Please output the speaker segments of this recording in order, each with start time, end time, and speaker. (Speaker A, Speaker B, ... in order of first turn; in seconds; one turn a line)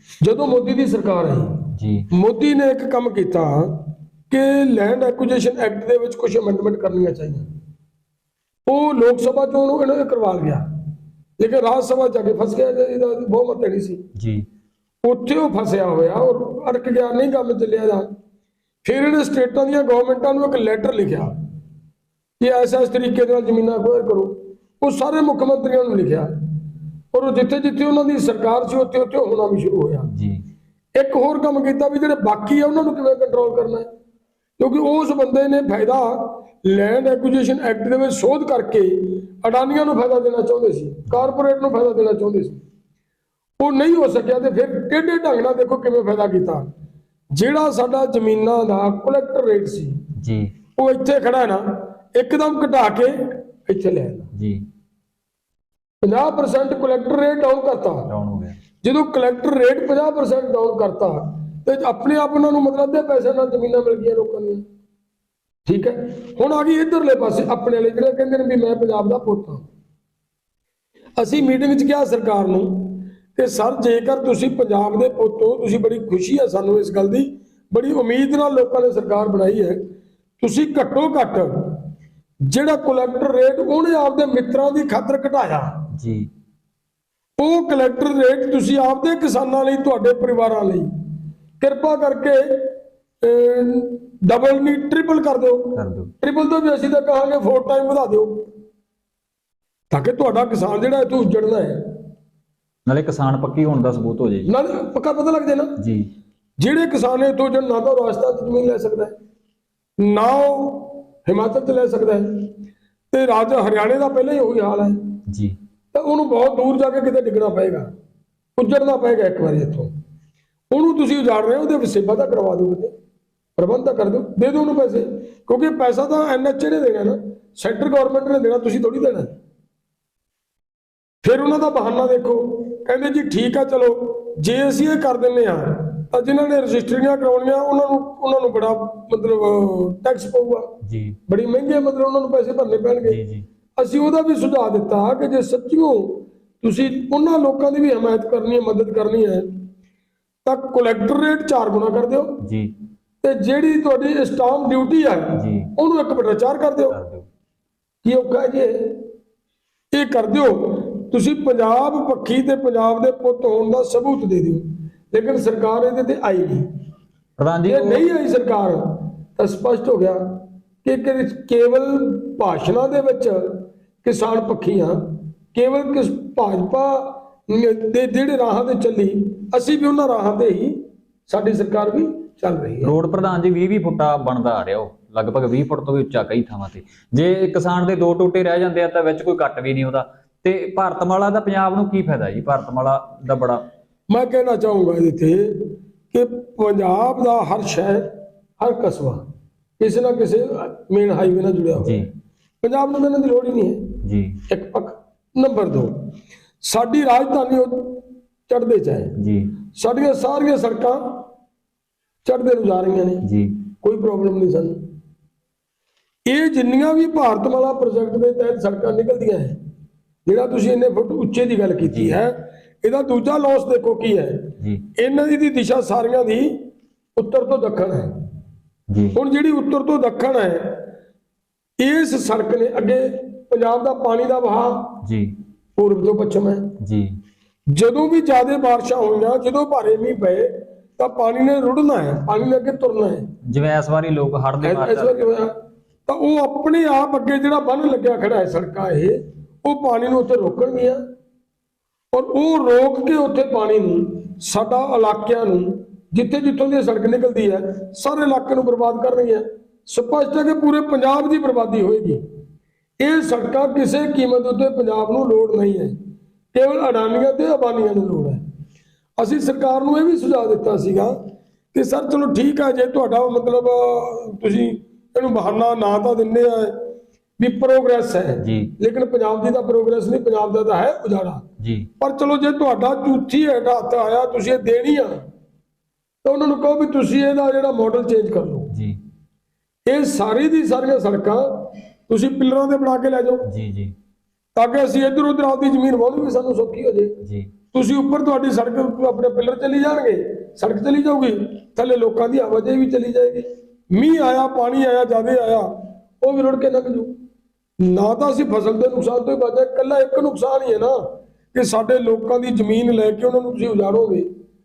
Speaker A: 0.2-7.5
Speaker B: 1.8-2.1
Speaker A: 8.7-10.6
Speaker A: 11.4-14.0
Speaker B: 14.2-14.4
Speaker A: 15.0-18.1
Speaker A: 18.8-21.3
Speaker A: 22.4-26.3
Speaker A: 27.1-30.1
Speaker B: 30.1-30.4
Speaker A: 30.9-33.9
Speaker A: 34.6-42.6
Speaker A: 43.6-46.7
Speaker A: 47.3-50.0
Speaker B: 50.2-50.5
Speaker A: 50.8-51.6
Speaker A: 52.1-54.3
Speaker B: 54.3-54.6
Speaker A: 56.0-58.1
Speaker B: 58.1-58.5
Speaker A: 58.8-64.6
Speaker A: 65.7-69.7
Speaker A: 71.2-79.8
Speaker A: 80.4-81.8
Speaker A: 82.5-85.9
Speaker B: 85.9-86.3
Speaker A: 87.4-90.9
Speaker A: 91.6-92.7
Speaker A: 93.2-98.4
Speaker B: 95.8-96.1
Speaker A: 99.9-101.8
Speaker B: 102.9-104.5
Speaker A: 104.5-105.8
Speaker B: 105.8-106.1
Speaker A: 106.6-109.1
Speaker A: 110.0-112.5
Speaker A: 113.1-115.0
Speaker B: 115.3-115.6
Speaker A: 115.9-117.9
Speaker A: 118.6-119.9
Speaker A: 120.7-122.9
Speaker A: 123.6-129.4
Speaker A: 131.2-140.7
Speaker B: 140.8-141.2
Speaker A: 141.3-143.2
Speaker B: 143.1-143.4
Speaker A: 143.8-149.5
Speaker A: 150.4-152.4
Speaker B: 152.4-152.7
Speaker A: 153.2-157.0
Speaker B: 155.3-155.7
Speaker B: 156.9-157.2
Speaker A: 158.0-158.9
Speaker A: 159.9-166.6
Speaker B: 167.4-168.1
Speaker A: 167.7-175.0
Speaker A: 175.5-182.9
Speaker B: 182.8-193.6
Speaker A: 194.1-199.2
Speaker A: 199.8-202.0
Speaker B: 201.8-202.0
Speaker A: 202.6-204.0
Speaker B: 204.0-204.4
Speaker A: 204.5-205.9
Speaker A: 206.6-209.1
Speaker B: 209.2-209.5
Speaker A: 209.8-211.2
Speaker A: 212.2-213.2
Speaker B: 213.2-213.6
Speaker A: 213.8-214.8
Speaker A: 216.3-219.6
Speaker A: 220.3-226.5
Speaker B: 221.8-222.2
Speaker A: 227.2-228.1
Speaker B: 228.9-229.2
Speaker A: 229.1-230.8
Speaker A: 231.8-234.9
Speaker B: 235.0-235.3
Speaker A: 235.8-236.7
Speaker B: 236.8-237.1
Speaker A: 237.7-243.3
Speaker B: 243.5-245.3
Speaker A: 244.6-245.5
Speaker A: 246.1-251.0
Speaker A: 252.1-262.2
Speaker A: 263.0-265.9
Speaker A: 266.5-268.4
Speaker A: 269.2-271.1
Speaker A: 271.7-276.8
Speaker A: 277.4-281.4
Speaker B: 278.4-278.7
Speaker B: 281.6-281.9
Speaker A: 282.0-285.2
Speaker A: 286.2-288.7
Speaker B: 288.7-289.0
Speaker A: 289.9-293.5
Speaker B: 293.4-293.9
Speaker A: 294.6-297.1
Speaker B: 297.2-297.5
Speaker A: 297.7-305.7
Speaker A: 306.2-307.1
Speaker A: 307.8-311.0
Speaker A: 311.5-314.3